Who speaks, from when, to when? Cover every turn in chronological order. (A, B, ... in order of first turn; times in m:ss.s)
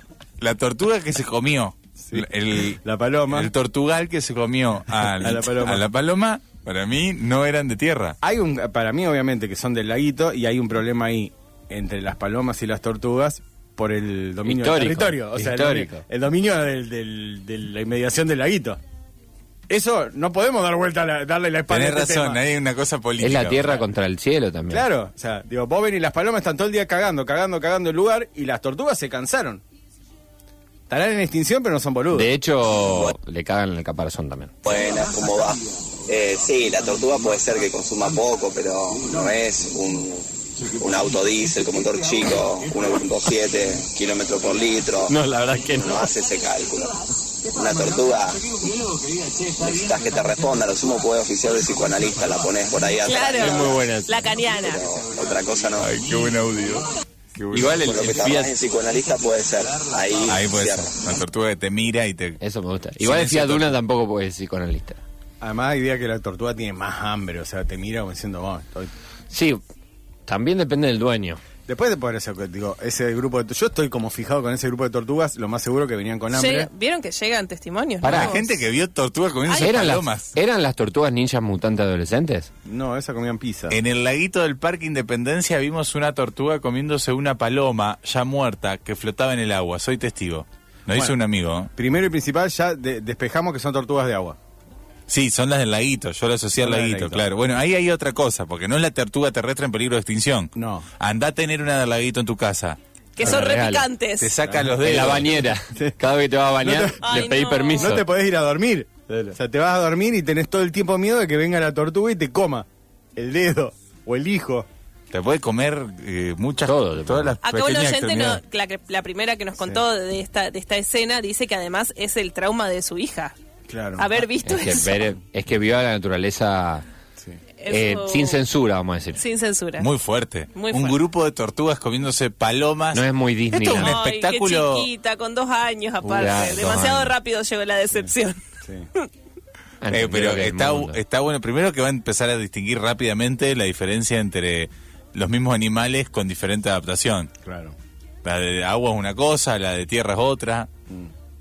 0:00.4-0:08.2 A
0:02.0-0:02.2 B
0:02.8-0:03.5 B
0:05.2-0:05.8 B
0:08.2-0:18.8 B
0:14.4-0:16.0 C
0:19.7-0:22.4 B
0:21.7-0:23.8 A
0:23.2-0:24.8 C
0:24.7-0:29.6 B
0:30.9-0:32.3 B
0:32.1-0:34.5 C
0:32.9-0:33.1 D
0:34.6-0:45.1 D
0:41.5-0:42.1 A
0:45.1-0:46.1 C
0:45.8-0:48.5 D
0:48.5-0:49.5 A
0:49.6-0:53.8 D
0:53.0-0:54.8 E
0:53.4-0:54.2 C
0:54.6-0:56.0 D
0:55.8-0:57.9 A
0:57.5-0:58.6 C
0:57.7-1:01.1 D
1:00.3-1:02.4 A
1:02.4-1:05.0 C
1:03.0-1:03.8 A
1:05.4-1:08.9 B
1:09.3-1:09.6 C
1:10.3-1:11.4 C
1:11.7-1:16.7 B
1:16.3-1:18.6 E
1:18.0-1:18.4 C
1:18.0-1:20.3 A
1:19.5-1:19.9 E
1:19.6-1:22.5 C
1:22.7-1:23.8 B
1:23.7-1:31.7 A
1:30.9-1:31.2 B
1:31.8-1:34.4 B
1:35.1-1:42.8 A
1:36.6-1:37.3 B
1:40.6-1:40.9 B
1:43.2-1:44.3 E
1:43.2-1:43.9 C
1:43.2-1:43.5 B
1:44.2-1:45.4 A
1:44.4-1:45.2 B
1:44.8-1:48.0 C
1:46.6-1:54.7 B
1:47.0-1:48.0 E
1:55.1-1:58.4 A
1:56.7-1:57.4 C
1:57.4-2:03.4 E
2:03.7-2:04.1 B
2:04.0-2:05.1 E
2:04.3-2:06.8 C
2:07.6-2:08.4 E
2:07.7-2:09.2 C
2:09.2-2:09.9 E
2:09.8-2:14.9 A
2:10.5-2:11.0 E
2:12.9-2:14.0 C
2:13.8-2:18.4 E
2:16.0-2:17.2 C
2:18.6-2:18.9 B
2:19.8-2:21.0 C
2:19.9-2:27.3 A
2:27.4-2:27.8 B
2:28.2-2:30.7 A